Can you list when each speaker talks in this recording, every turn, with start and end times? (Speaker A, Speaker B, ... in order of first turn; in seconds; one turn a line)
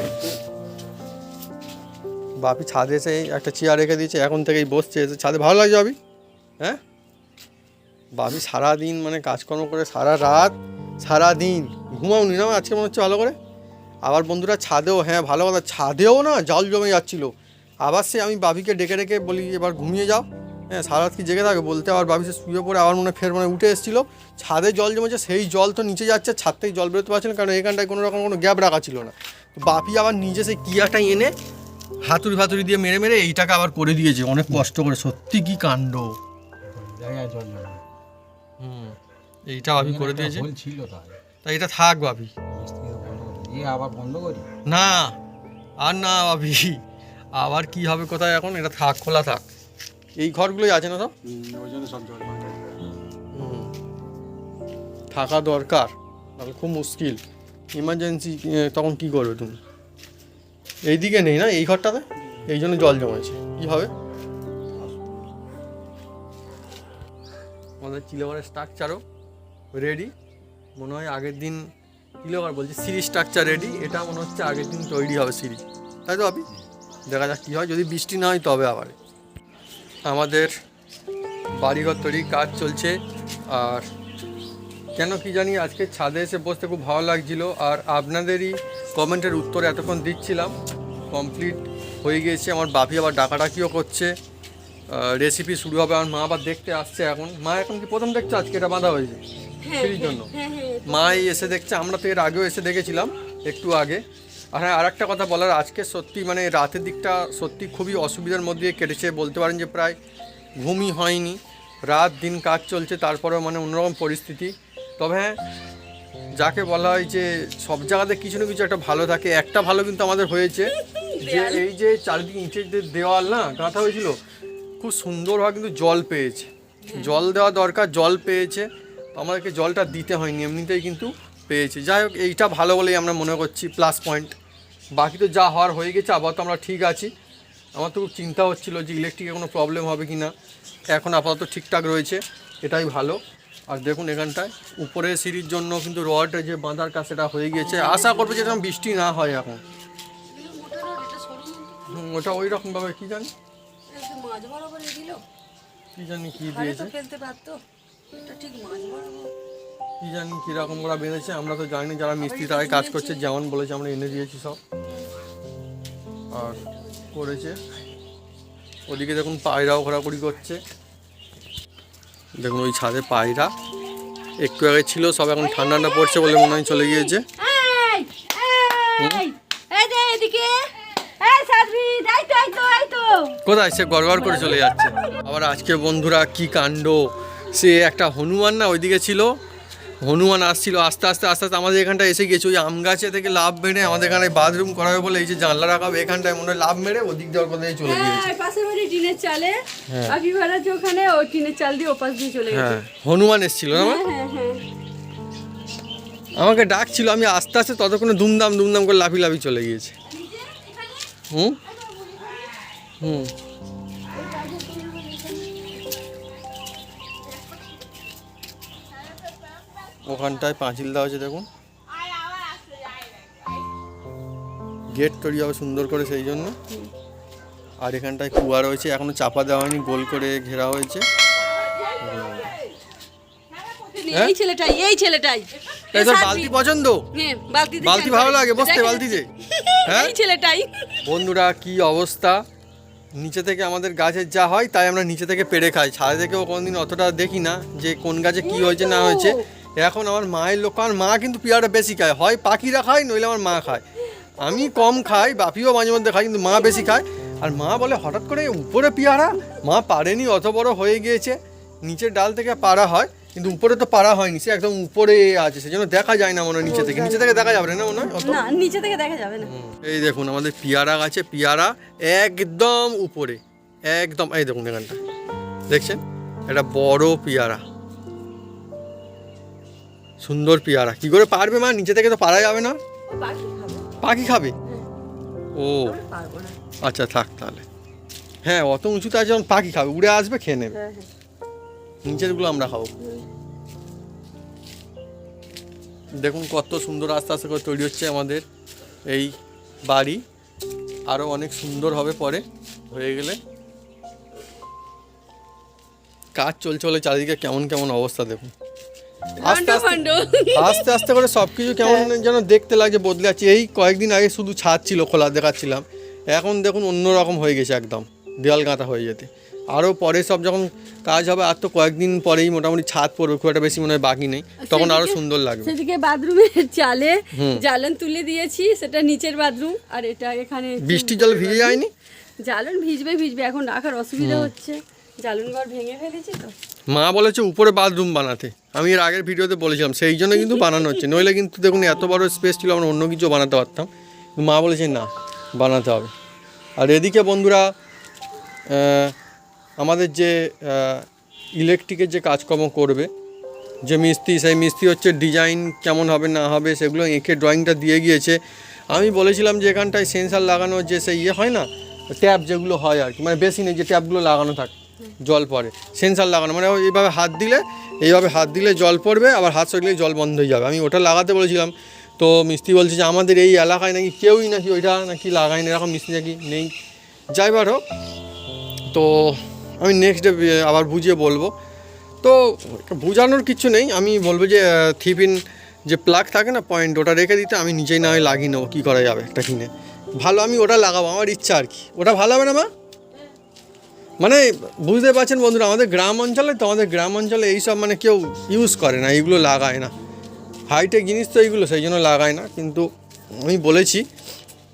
Speaker A: 2.4-6.0
Speaker A: 8.1-13.3
Speaker A: 14.0-17.3
Speaker A: 17.8-31.3
Speaker A: 32.0-36.2
Speaker B: 36.7-37.8
Speaker A: 38.6-39.0
Speaker A: 39.5-40.5
Speaker B: 39.7-41.2
Speaker A: 41.4-42.3
Speaker B: 42.5-44.5
Speaker A: 44.7-45.1
Speaker A: 45.8-46.8
Speaker A: 47.4-49.4
Speaker A: 50.2-51.1
Speaker B: 51.2-52.8
Speaker A: 53.3-53.7
Speaker A: 55.1-57.2
Speaker A: 57.7-59.6
Speaker A: 60.9-63.9
Speaker A: 67.8-69.0
Speaker A: 69.7-70.1
Speaker A: 70.8-71.7
Speaker A: 72.2-76.5
Speaker A: 77.1-79.0
Speaker A: 80.1-80.5
Speaker A: 81.6-83.0
Speaker A: 83.5-83.8
Speaker A: 85.0-90.5
Speaker A: 91.1-94.1
Speaker A: 94.9-99.2
Speaker C: 99.6-101.5
Speaker A: 99.8-100.3
Speaker A: 100.9-110.0
Speaker A: 110.6-115.4
Speaker A: 116.4-124.2
Speaker C: 120.7-121.7
Speaker A: 124.8-134.3
Speaker C: 126.8-127.3
Speaker A: 134.9-137.1
Speaker A: 137.8-140.3
Speaker A: 140.9-143.2
Speaker A: 143.7-149.6
Speaker C: 147.8-148.3
Speaker C: 150.3-152.0
Speaker A: 151.9-153.3
Speaker C: 153.9-155.2
Speaker A: 156.0-156.9
Speaker C: 156.4-157.6
Speaker C: 158.2-159.3
Speaker A: 160.0-164.6
Speaker C: 162.2-163.3
Speaker A: 166.3-166.6
Speaker A: 167.1-167.6
Speaker A: 168.9-170.6
Speaker A: 172.4-173.5
Speaker A: 174.4-177.2
Speaker C: 175.4-183.4
Speaker A: 179.0-179.2
Speaker A: 183.4-189.3
Speaker C: 184.1-185.1
Speaker A: 190.0-198.3
Speaker C: 197.8-202.8
Speaker A: 199.9-200.2
Speaker A: 202.5-204.0
Speaker C: 203.7-204.6
Speaker A: 206.4-209.9
Speaker C: 210.2-211.1
Speaker A: 211.3-211.6
Speaker C: 211.8-212.5
Speaker A: 213.0-213.3
Speaker C: 214.1-215.7
Speaker A: 220.1-221.5
Speaker A: 224.9-226.6
Speaker A: 227.8-231.1
Speaker A: 232.0-232.5
Speaker C: 233.6-236.5
Speaker A: 235.9-237.1
Speaker C: 237.1-241.1
Speaker A: 237.8-239.3
Speaker A: 239.8-240.1
Speaker A: 241.0-242.4
Speaker A: 243.2-253.8
Speaker C: 248.4-249.4
Speaker A: 254.4-268.4
Speaker C: 266.6-269.5
Speaker A: 269.4-275.0
Speaker A: 275.7-277.6
Speaker A: 280.2-282.8
Speaker C: 283.1-284.0
Speaker A: 284.0-284.6
Speaker A: 285.6-286.0
Speaker C: 285.8-286.6
Speaker A: 286.8-287.6
Speaker A: 288.4-290.8
Speaker C: 290.7-291.1
Speaker A: 292.1-292.9
Speaker A: 296.2-298.4
Speaker A: 299.1-299.3
Speaker A: 299.9-300.2
Speaker A: 301.1-303.4
Speaker A: 306.4-308.5
Speaker C: 309.4-311.1
Speaker A: 309.4-310.0
Speaker A: 310.6-325.7
Speaker C: 311.8-312.1
Speaker C: 324.6-331.8
Speaker A: 327.3-327.6
Speaker A: 330.8-331.9
Speaker C: 332.4-336.6
Speaker A: 334.2-334.5
Speaker A: 336.9-346.1
Speaker C: 340.4-341.2
Speaker A: 346.8-347.7
Speaker A: 348.7-349.1
Speaker A: 349.8-351.1
Speaker A: 351.6-353.1
Speaker A: 353.9-358.4
Speaker A: 358.9-376.7
Speaker A: 377.3-377.8
Speaker A: 378.9-381.5
Speaker A: 382.2-392.7
Speaker A: 394.2-399.9
Speaker A: 400.7-402.9
Speaker A: 403.4-404.0